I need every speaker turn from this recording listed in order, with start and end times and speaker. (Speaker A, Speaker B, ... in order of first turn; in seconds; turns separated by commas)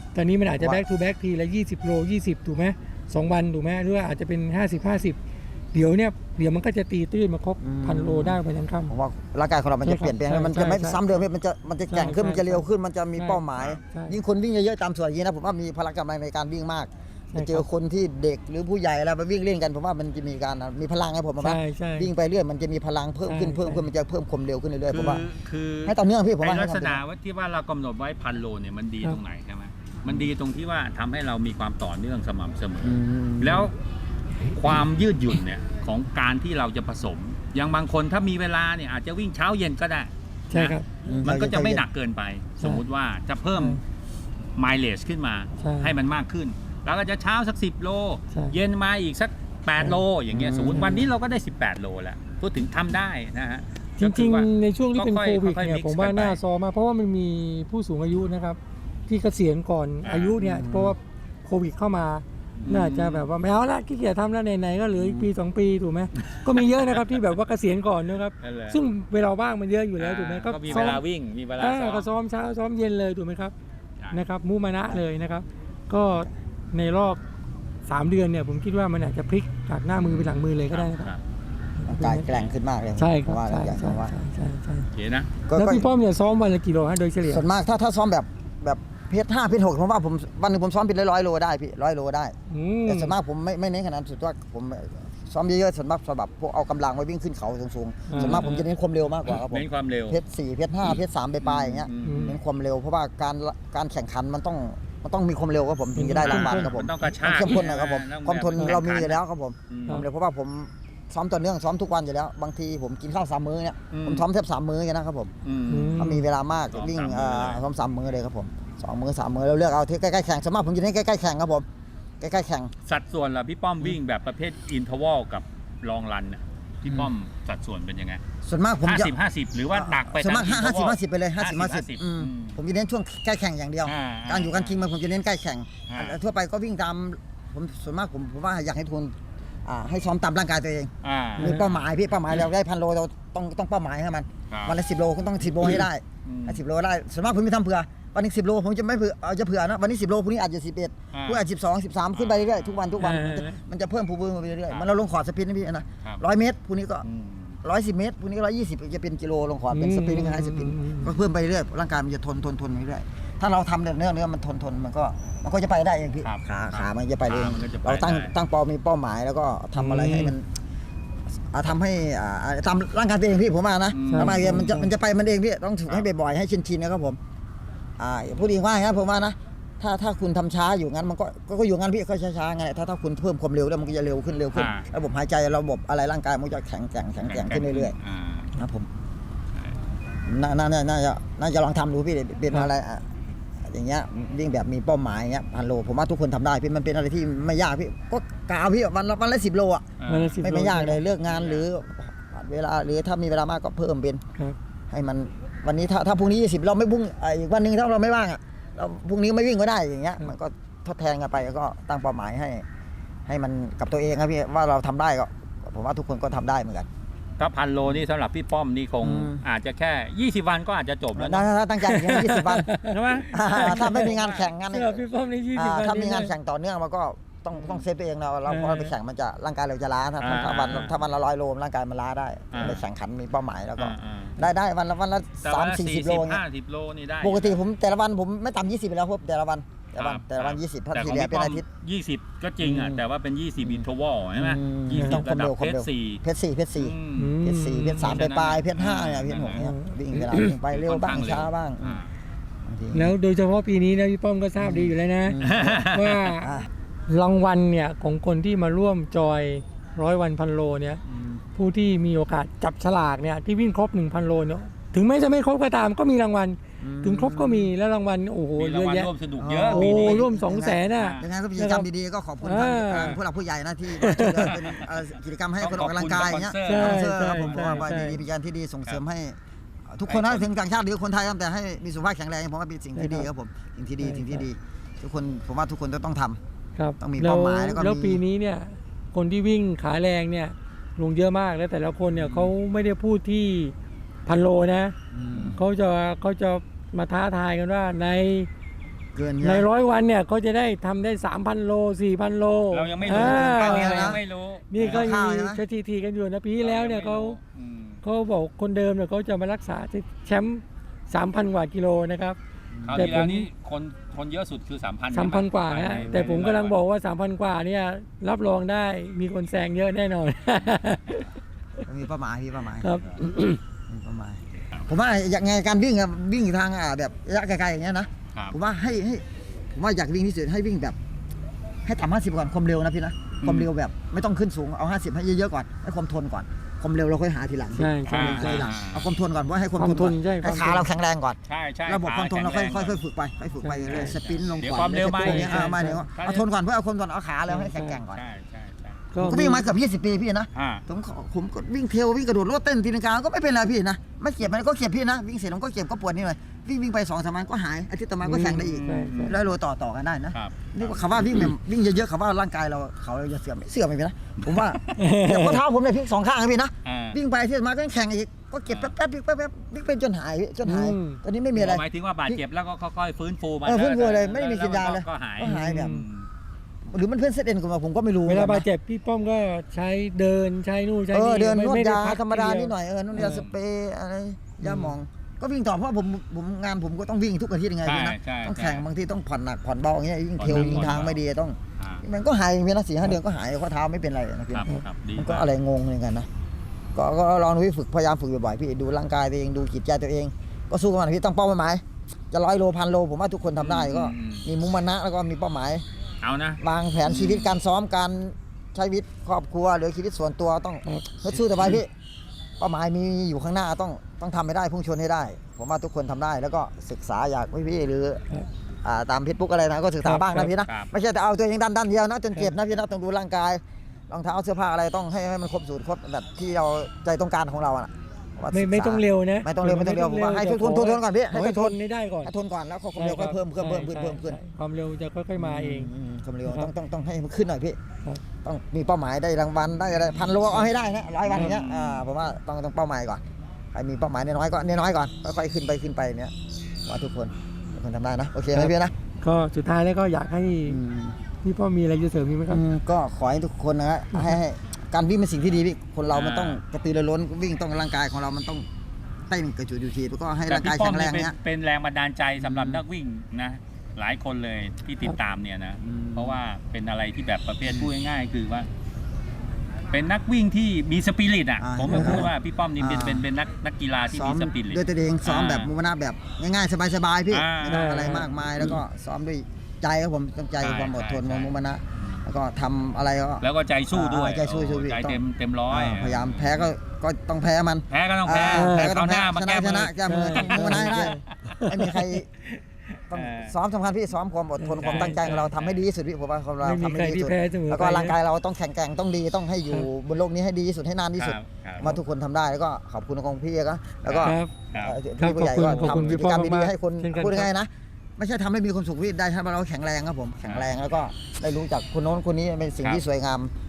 Speaker A: 0.1-5.2, Speaker B: 0.6-0.8, Speaker A: 5.7-8.9, Speaker B: 7.6-25.2, Speaker A: 9.8-11.0, Speaker A: 11.9-12.7, Speaker A: 13.2-14.2, Speaker A: 17.3-17.6, Speaker A: 21.4-22.1, Speaker A: 23.2-23.8, Speaker C: 24.9-33.8, Speaker B: 25.8-27.0, Speaker B: 32.8-33.7, Speaker C: 34.5-43.8, Speaker A: 40.5-40.9, Speaker B: 41.0-41.8, Speaker A: 43.5-43.8, Speaker C: 44.5-56.4, Speaker A: 45.6-45.9, Speaker A: 48.3-48.6, Speaker B: 50.3-51.1, Speaker A: 50.8-51.0, Speaker A: 54.0-71.0, Speaker C: 60.0-60.4, Speaker B: 60.4-60.9, Speaker C: 62.6-63.3, Speaker B: 65.0-65.3, Speaker C: 66.5-67.0, Speaker C: 68.4-68.8, Speaker C: 70.0-72.1, Speaker A: 71.6-73.5, Speaker A: 74.1-77.2, Speaker A: 77.8-81.1, Speaker C: 79.9-81.2, Speaker A: 81.8-82.3, Speaker B: 81.9-84.1, Speaker A: 83.0-84.9, Speaker C: 84.9-85.3, Speaker B: 85.5-85.9, Speaker A: 85.5-87.5, Speaker B: 87.2-92.3, Speaker A: 92.5-93.1, Speaker B: 92.8-115.3, Speaker A: 98.1-98.7, Speaker C: 98.2-98.5, Speaker C: 99.2-100.2, Speaker C: 101.4-102.4, Speaker A: 102.0-102.4, Speaker A: 106.0-106.7, Speaker C: 106.2-110.0, Speaker C: 113.9-114.2, Speaker C: 115.4-116.1, Speaker A: 115.7-116.2, Speaker B: 116.0-121.7, Speaker C: 116.7-117.6, Speaker B: 122.2-122.7, Speaker C: 122.8-128.2, Speaker B: 126.8-127.1, Speaker B: 128.4-129.1, Speaker C: 128.8-132.6, Speaker B: 129.7-157.0, Speaker C: 133.8-134.8, Speaker C: 135.9-136.2, Speaker C: 141.0-141.7, Speaker A: 141.4-141.6, Speaker C: 144.5-144.8, Speaker C: 145.6-146.6, Speaker C: 151.1-151.4, Speaker C: 152.1-153.1, Speaker A: 153.0-153.6, Speaker C: 157.0-157.6, Speaker B: 157.6-170.5, Speaker A: 159.7-161.2, Speaker C: 166.2-168.3, Speaker A: 169.8-170.3, Speaker B: 171.5-177.2, Speaker C: 173.9-174.8, Speaker A: 174.1-174.9, Speaker B: 178.0-187.9, Speaker C: 184.5-184.8, Speaker C: 187.2-188.6, Speaker B: 188.6-188.9, Speaker B: 190.2-193.1, Speaker B: 193.6-199.9, Speaker C: 200.0-200.4, Speaker A: 200.1-201.0, Speaker B: 200.4-204.2, Speaker C: 201.3-201.7, Speaker B: 204.9-212.6, Speaker B: 213.3-216.9, Speaker C: 217.4-221.5, Speaker B: 219.0-219.4, Speaker B: 221.1-222.7, Speaker A: 221.9-224.1, Speaker C: 222.8-224.5, Speaker B: 223.3-236.4, Speaker A: 224.7-226.3, Speaker C: 227.5-227.8, Speaker A: 228.5-228.9, Speaker C: 230.2-230.9, Speaker C: 232.5-232.8, Speaker C: 233.8-234.4, Speaker C: 235.4-237.6, Speaker B: 237.2-241.7, Speaker C: 239.9-246.2, Speaker B: 242.6-243.0, Speaker B: 243.6-252.0, Speaker A: 244.9-245.2, Speaker C: 246.8-247.3, Speaker A: 247.2-248.2, Speaker C: 247.9-249.6, Speaker A: 249.6-250.6, Speaker C: 250.7-252.1, Speaker B: 252.7-253.1, Speaker A: 252.9-256.5, Speaker B: 254.6-255.9, Speaker C: 255.4-256.3, Speaker B: 256.4-256.7, Speaker A: 257.1-261.0, Speaker B: 261.1-261.4, Speaker A: 261.5-269.1, Speaker B: 266.8-267.7, Speaker C: 268.6-270.2, Speaker B: 269.4-279.4, Speaker A: 269.7-271.9, Speaker C: 270.9-271.3, Speaker A: 272.4-273.2, Speaker C: 272.9-273.2, Speaker A: 273.9-274.5, Speaker C: 274.4-274.9, Speaker C: 275.6-278.1, Speaker A: 276.6-278.2, Speaker B: 279.9-286.4, Speaker C: 280.1-280.5, Speaker A: 282.9-283.3, Speaker A: 284.0-284.5, Speaker A: 286.8-293.7, Speaker B: 287.0-288.2, Speaker C: 292.1-292.5, Speaker A: 294.2-298.5, Speaker B: 295.1-295.7, Speaker B: 299.1-299.7, Speaker A: 299.4-304.2, Speaker C: 302.7-305.1, Speaker B: 303.0-304.2, Speaker A: 304.7-307.4, Speaker B: 304.8-305.6, Speaker C: 306.6-308.0, Speaker A: 308.0-312.4, Speaker B: 312.7-313.1, Speaker C: 312.9-316.8, Speaker A: 312.9-313.5, Speaker A: 315.1-321.3, Speaker B: 321.8-323.2, Speaker A: 322.8-323.6, Speaker B: 323.9-330.9, Speaker B: 331.9-348.2, Speaker C: 333.4-333.7, Speaker A: 337.8-338.7, Speaker C: 338.1-339.1, Speaker A: 339.8-340.9, Speaker C: 341.4-343.0, Speaker A: 343.6-344.1, Speaker C: 343.9-346.5, Speaker A: 345.2-346.1, Speaker A: 347.5-348.0, Speaker C: 348.1-349.0, Speaker A: 349.1-349.7, Speaker B: 349.2-372.4, Speaker C: 350.5-350.8, Speaker A: 358.2-359.4, Speaker C: 358.4-359.5, Speaker C: 360.3-361.5, Speaker C: 364.4-364.7, Speaker A: 364.9-365.6, Speaker C: 366.8-367.2, Speaker C: 368.7-368.9, Speaker A: 370.6-371.2, Speaker C: 371.5-376.3, Speaker B: 373.6-376.0, Speaker A: 375.4-376.0, Speaker B: 376.9-378.7, Speaker A: 378.2-383.4, Speaker B: 381.1-396.3, Speaker C: 383.2-383.5, Speaker A: 384.6-384.9, Speaker C: 387.8-388.8, Speaker C: 390.4-391.2, Speaker A: 390.5-390.8, Speaker C: 391.8-392.0, Speaker C: 394.5-395.5, Speaker B: 396.9-405.8, Speaker C: 403.6-404.4, Speaker C: 406.2-407.5, Speaker B: 406.6-411.9, Speaker B: 412.6-418.2, Speaker B: 418.8-434.4, Speaker A: 420.0-420.5, Speaker C: 420.6-420.9, Speaker A: 428.5-432.3, Speaker A: 432.9-435.9, Speaker B: 435.3-437.8, Speaker B: 438.4-443.2, Speaker C: 441.2-442.0, Speaker B: 443.7-446.3, Speaker B: 446.9-448.9, Speaker A: 448.5-450.8, Speaker B: 450.6-451.2, Speaker A: 451.4-452.6, Speaker B: 452.5-458.6, Speaker C: 456.1-456.6, Speaker B: 459.3-461.4, Speaker C: 460.5-468.7, Speaker B: 462.4-462.8, Speaker B: 465.8-466.4, Speaker B: 467.6-467.9, Speaker C: 469.9-475.7, Speaker B: 471.6-473.3, Speaker B: 474.1-492.3, Speaker C: 477.3-478.8, Speaker A: 477.7-478.3, Speaker C: 480.6-482.2, Speaker C: 483.4-486.7, Speaker C: 487.9-491.1, Speaker A: 488.5-488.9, Speaker A: 490.1-492.2, Speaker B: 493.1-513.5, Speaker C: 493.1-493.6, Speaker A: 494.6-495.2, Speaker C: 494.8-495.8, Speaker A: 496.6-498.1, Speaker C: 501.2-501.9, Speaker C: 504.1-505.0, Speaker A: 504.2-504.5, Speaker A: 505.2-507.5, Speaker C: 505.6-506.2, Speaker C: 510.4-510.7